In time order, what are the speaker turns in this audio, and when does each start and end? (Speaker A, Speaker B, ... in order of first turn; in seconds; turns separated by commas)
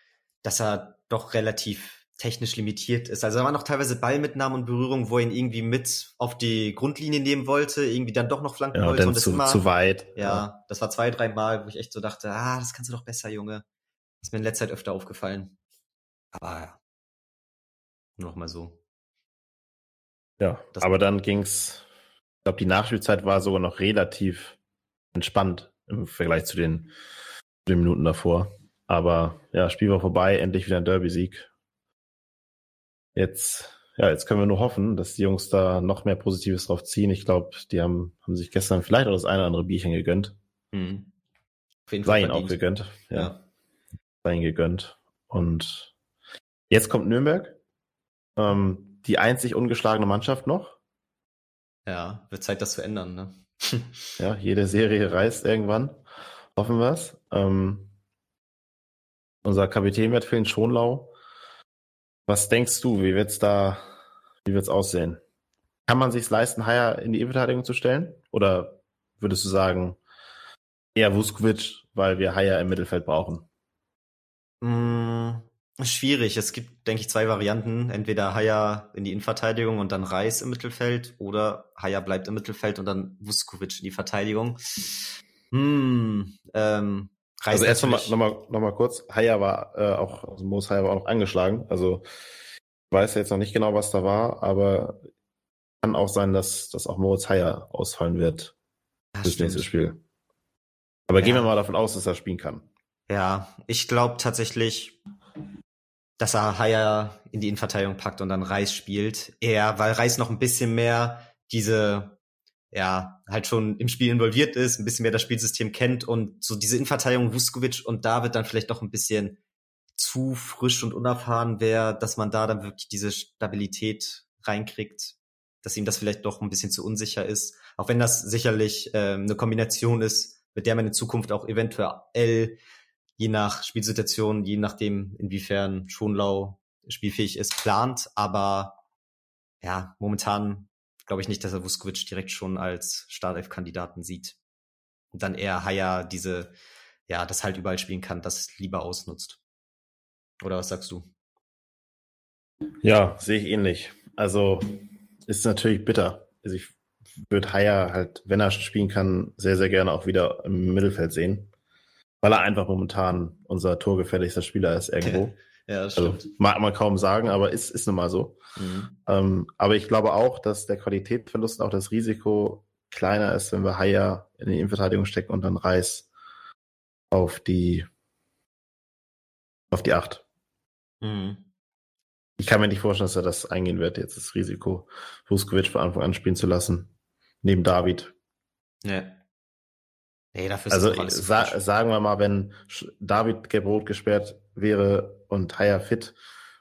Speaker A: 0.4-9.6, Speaker B: 8.7-10.4, Speaker A: 10.2-13.6, Speaker A: 14.2-15.5, Speaker A: 16.3-16.8, Speaker A: 18.2-18.8, Speaker B: 20.4-21.8, Speaker B: 22.4-24.6, Speaker B: 25.1-26.9, Speaker B: 27.6-31.5, Speaker B: 33.1-40.4, Speaker A: 40.7-41.1, Speaker A: 41.9-42.6, Speaker B: 42.0-43.3, Speaker A: 43.1-43.4, Speaker B: 44.2-45.9, Speaker B: 46.7-47.6, Speaker B: 48.4-50.8, Speaker A: 51.9-54.1, Speaker B: 54.2-56.0, Speaker B: 56.5-57.9, Speaker B: 59.4-61.1, Speaker B: 62.3-63.9, Speaker B: 64.4-65.2, Speaker B: 65.9-70.0, Speaker B: 71.0-73.5, Speaker A: 74.6-88.2, Speaker B: 87.5-92.0, Speaker B: 92.9-95.0, Speaker B: 95.8-98.5, Speaker A: 99.1-99.7, Speaker B: 99.2-100.0, Speaker B: 101.1-102.7, Speaker A: 101.2-101.5, Speaker A: 103.1-105.0, Speaker A: 106.2-112.2, Speaker A: 112.7-119.4, Speaker A: 119.9-132.6, Speaker A: 133.2-138.8, Speaker A: 139.6-144.4, Speaker A: 145.1-146.5, Speaker A: 147.1-149.4, Speaker A: 150.4-151.1, Speaker B: 152.8-154.7, Speaker B: 155.3-156.7, Speaker B: 157.3-161.5, Speaker B: 162.2-165.3, Speaker A: 165.0-166.3, Speaker B: 165.9-168.4, Speaker A: 168.6-168.9, Speaker B: 169.1-176.1, Speaker B: 177.1-177.9, Speaker B: 179.7-180.2, Speaker A: 181.0-181.5, Speaker B: 182.4-186.9, Speaker B: 187.4-188.1, Speaker A: 188.8-189.2, Speaker A: 190.3-191.6, Speaker B: 190.7-196.1